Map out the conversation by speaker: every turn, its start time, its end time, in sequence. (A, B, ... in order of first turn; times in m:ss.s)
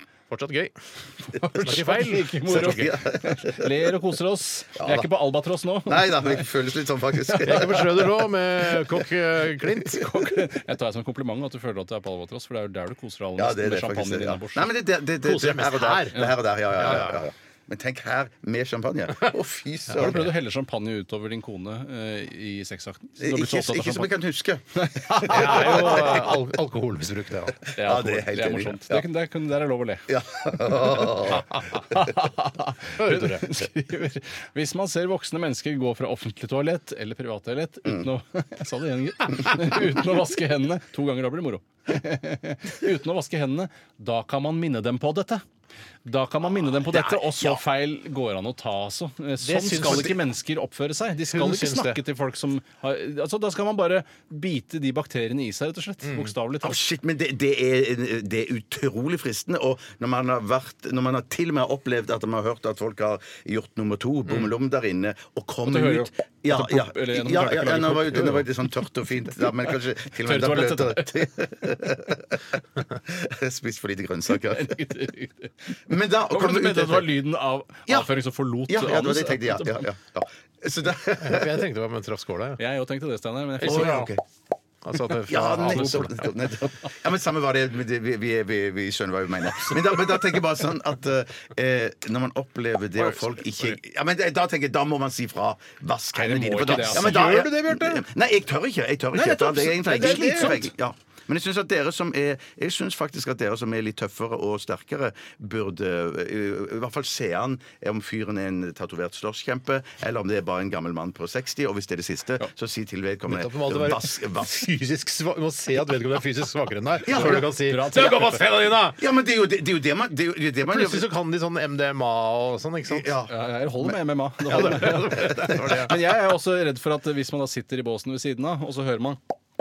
0:00.3-0:00.7 A
0:01.3-0:06.4 B
0:01.6-0:02.9 A
0:02.5-0:03.7 C
0:04.8-0:05.1 C
0:05.9-0:08.1 C
0:07.3-0:07.8 B
0:07.4-0:10.1 A
0:09.8-0:14.7 B
0:13.4-0:20.3 C
0:15.2-0:17.3 A
0:19.9-0:20.2 A
0:19.9-0:24.1 B
0:23.2-0:26.4 C
0:24.8-0:26.3 B
0:25.3-0:27.7 A
0:27.6-0:29.0 C
0:27.8-0:30.1 B
0:30.1-0:32.0 C
0:30.7-0:45.4 B
0:31.3-0:31.8 A
0:33.0-0:33.5 A
0:46.0-0:56.8 B
0:46.9-0:47.6 A
0:49.4-0:50.2 A
0:51.3-0:52.0 A
0:56.0-0:56.3 A
0:56.6-1:14.9 C
1:05.6-1:08.6 B
1:10.2-1:11.3 B
1:14.4-1:15.8 B
1:15.9-1:17.1 C
1:16.3-1:19.8 B
1:18.7-1:21.6 C
1:21.2-1:22.6 A
1:22.6-1:24.0 B
1:23.6-1:24.1 A
1:23.6-1:24.2 C
1:24.8-1:26.3 A
1:25.3-1:54.6 C
1:25.7-1:26.1 B
1:36.1-1:37.6 B
1:36.7-1:38.0 A
1:39.1-1:40.7 B
1:39.7-1:40.6 A
1:53.3-1:59.0 A
1:57.0-1:57.4 C
1:57.1-1:58.4 B
1:59.0-2:01.1 C
2:00.6-2:03.1 A
2:02.9-2:03.9 C
2:03.3-2:09.2 B
2:04.5-2:05.9 A
2:04.5-2:05.7 C